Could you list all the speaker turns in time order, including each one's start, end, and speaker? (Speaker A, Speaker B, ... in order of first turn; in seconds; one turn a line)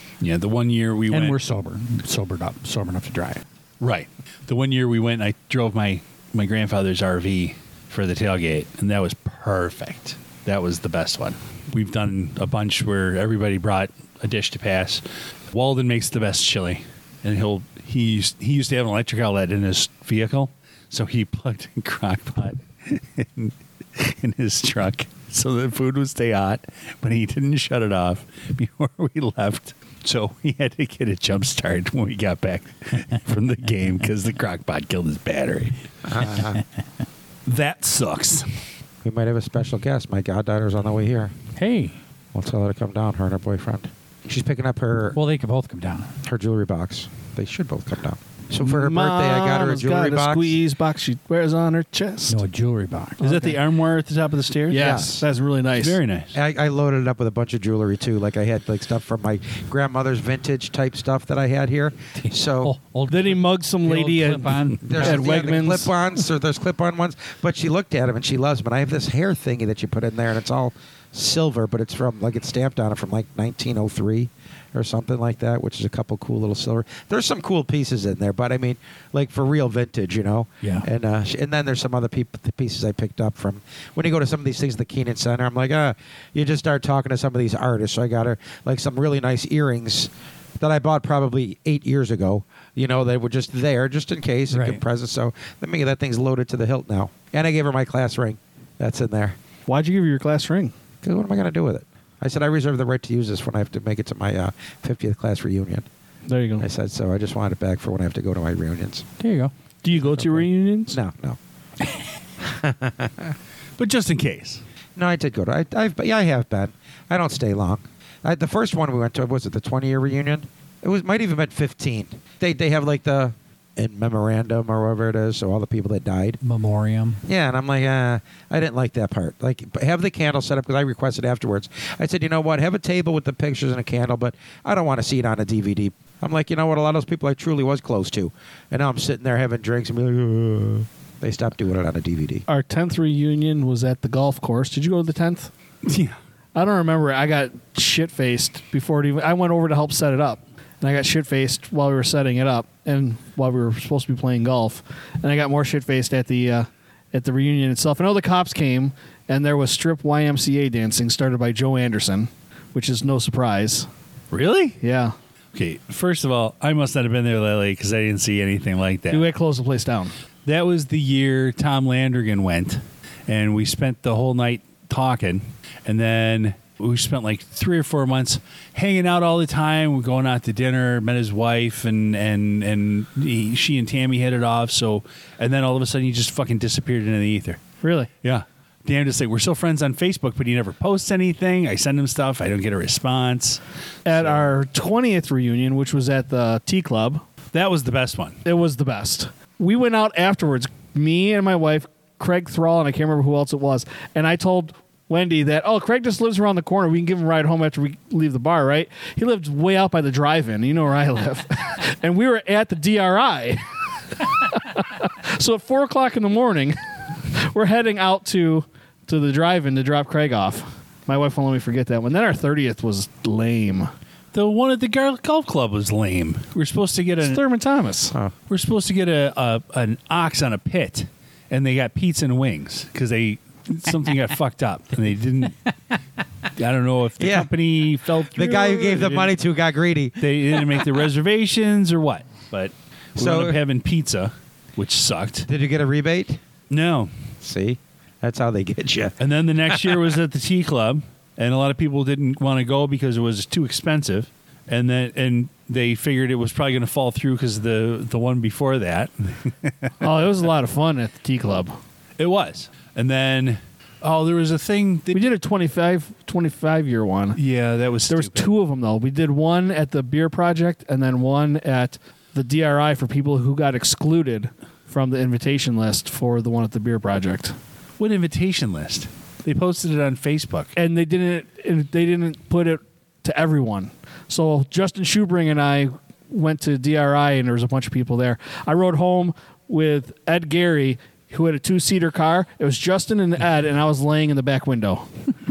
Speaker A: 0.2-1.4
Speaker B: 1.1-3.4
Speaker A: 3.8-36.3
Speaker C: 36.1-36.6
Speaker A: 37.5-38.6
Speaker C: 39.0-41.3
Speaker B: 41.5-41.9
Speaker C: 42.3-45.2
Speaker B: 45.1-46.1
Speaker C: 46.2-50.6
Speaker D: 48.6-52.4
Speaker B: 52.3-53.2
Speaker D: 53.2-53.6
Speaker A: 53.2-54.9
Speaker D: 54.7-56.0
Speaker C: 54.7-55.2
Speaker A: 55.7-56.4
Speaker C: 56.3-62.7
Speaker B: 62.1-65.2
Speaker D: 63.1-65.9
Speaker C: 64.8-99.4
Speaker B: 80.6-80.9
Speaker B: 94.5-94.8
Speaker D: 99.7-100.7
Speaker C: 101.0-105.9
Speaker D: 106.3-106.7
Speaker C: 106.6-109.0
Speaker B: 109.2-109.5
Speaker D: 109.8-111.0
Speaker C: 109.9-111.4
Speaker C: 112.4-113.3
Speaker A: 113.8-114.6
Speaker C: 115.0-126.4
Speaker B: 126.4-127.2
Speaker C: 127.2-142.4
Speaker D: 142.5-145.5
Speaker A: 145.8-146.2
Speaker D: 146.5-163.9
Speaker A: 164.3-164.8
Speaker D: 164.8-165.1
Speaker A: 165.5-169.3
Speaker D: 169.1-170.1
Speaker A: 170.4-187.6
Speaker D: 187.8-188.1
Speaker A: 188.2-194.5
Speaker D: 194.0-197.2
Speaker A: 197.5-198.4
Speaker D: 198.4-213.7
Speaker D: 214.2-216.8
Speaker D: 217.3-223.9
Speaker A: 224.3-227.4
Speaker D: 227.2-228.1
Speaker A: 228.5-235.5
Speaker A: 236.5-239.3
Speaker C: 237.2-237.5
Speaker C: 238.2-240.3
Speaker A: 240.2-245.5
Speaker C: 243.2-243.6
Speaker C: 245.5-246.4
Speaker A: 246.7-247.1
Speaker C: 247.4-249.2
Speaker A: 249.2-259.9
Speaker D: 260.0-261.8
Speaker A: 262.2-265.3
Speaker D: 265.1-267.4
Speaker A: 267.3-268.5
Speaker D: 268.1-277.6
Speaker A: 278.0-280.7
Speaker D: 280.8-295.1